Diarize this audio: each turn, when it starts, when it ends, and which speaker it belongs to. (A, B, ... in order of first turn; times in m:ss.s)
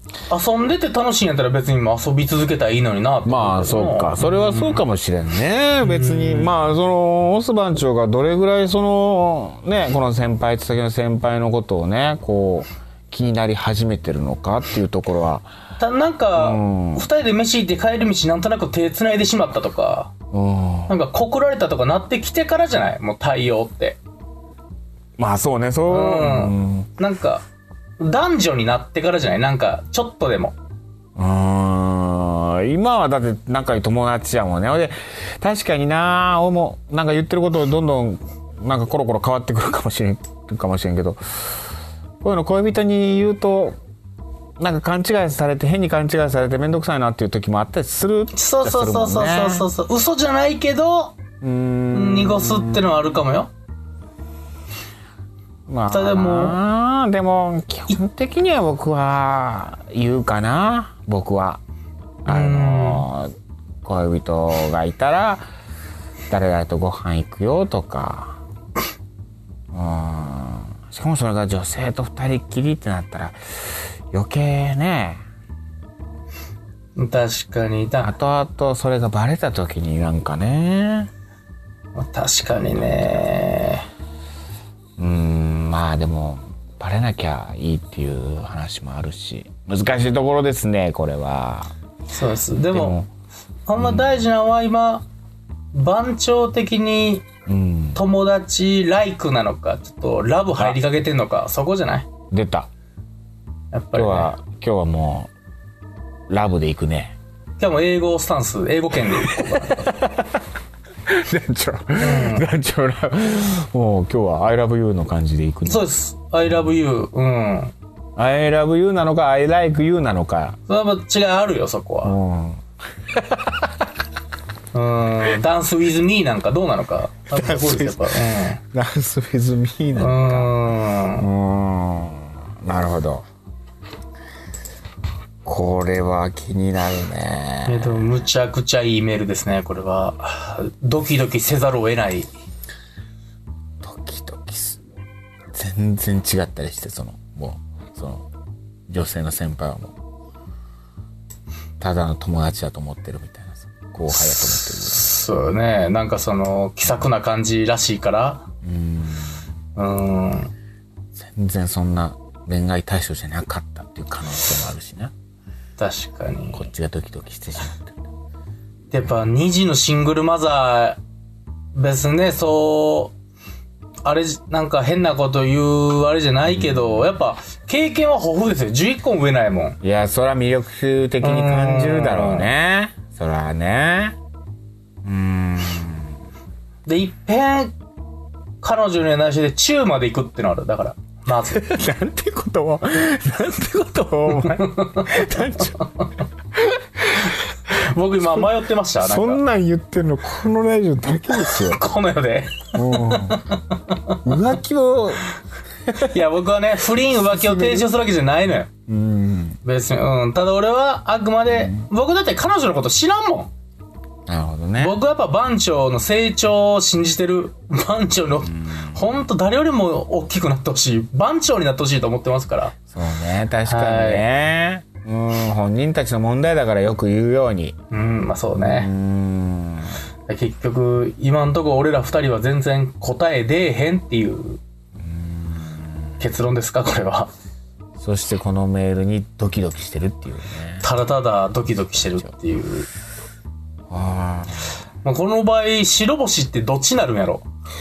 0:00.3-0:04.8 A
0:03.2-0:15.5 B
0:05.8-0:06.6 A
0:15.8-0:20.1 A
0:16.4-0:17.1 B
0:20.3-0:21.0 B
0:20.9-0:24.0 A
0:25.2-0:26.9 B
0:25.9-0:27.4 A
0:28.0-0:30.6 A
0:31.2-0:41.6 B
0:42.2-0:43.8 B
0:44.6-0:49.7 B
0:48.3-0:51.1 A
0:51.4-0:53.1 B
0:51.9-0:53.5 A
0:55.7-1:01.6 B
0:55.9-0:56.6 A
1:02.2-1:03.3 B
1:02.3-1:03.0 A
1:03.8-1:05.5 B
1:06.3-1:08.4 B
1:09.7-1:15.2 B
1:17.0-1:18.1 A
1:18.0-1:21.1 B
1:22.0-1:23.9 A
1:25.0-1:31.7 B
1:32.1-1:33.0 A
1:32.7-1:33.1 B
1:33.7-1:35.1 A
1:33.8-1:34.2 B
1:35.7-1:37.2 A
1:37.5-1:38.0 B
1:37.9-1:42.1 A
1:42.3-1:42.7 B
1:43.7-1:44.3 A
1:43.9-1:45.3 B
1:46.3-1:47.1 B
1:47.6-1:50.0 A
1:49.8-1:50.3 B
1:51.1-1:55.8 B
1:52.0-1:52.5 A
1:55.7-1:57.7 A
1:58.2-2:00.6 B
2:00.7-2:02.1 A
2:02.0-2:03.7 B
2:04.7-2:08.6 A
2:07.3-2:10.6 B
2:10.0-2:11.3 A
2:11.2-2:13.3 B
2:15.4-2:18.2 B
2:17.7-2:22.3 A
2:23.8-2:24.8 B
2:25.5-2:28.2 B
2:28.9-2:29.9 B
2:31.8-2:35.1 B
2:34.4-2:38.4 A
2:38.6-2:39.5 B
2:39.8-2:40.5 A
2:41.2-2:45.1 B
2:45.8-2:46.7 A
2:46.5-2:48.0 B
2:48.9-2:51.0 A
2:51.8-2:53.1 A
2:54.0-2:59.8 A
2:56.5-2:57.0 B
2:59.8-3:04.2 B
3:01.2-3:02.5 A
3:05.0-3:06.1 B
3:06.9-3:07.8 A
3:08.6-3:11.6 A
3:11.5-3:15.8 B
3:14.7-3:15.0 A
3:16.6-3:17.4 B
3:17.7-3:19.4 A
3:19.0-3:21.8 B
3:21.4-3:24.2 A
3:22.8-3:23.4 B
3:24.2-3:25.2 B
3:26.0-3:28.7 A
3:27.3-3:27.9 B
3:28.9-3:29.6 B
3:29.6-3:33.5 A
3:34.3-3:35.0 B
3:34.8-3:42.8 A
3:38.5-3:39.0 B
3:42.9-3:47.8 B
3:43.7-3:44.3 A
3:47.9-3:48.9 A
3:48.6-3:50.0 B
3:50.3-3:54.6 A
3:55.0-3:56.0 B
3:56.2-3:57.3 A
3:58.0-4:00.8 B
4:00.8-4:02.9 A
4:03.9-4:04.8 B
4:05.0-4:07.4 A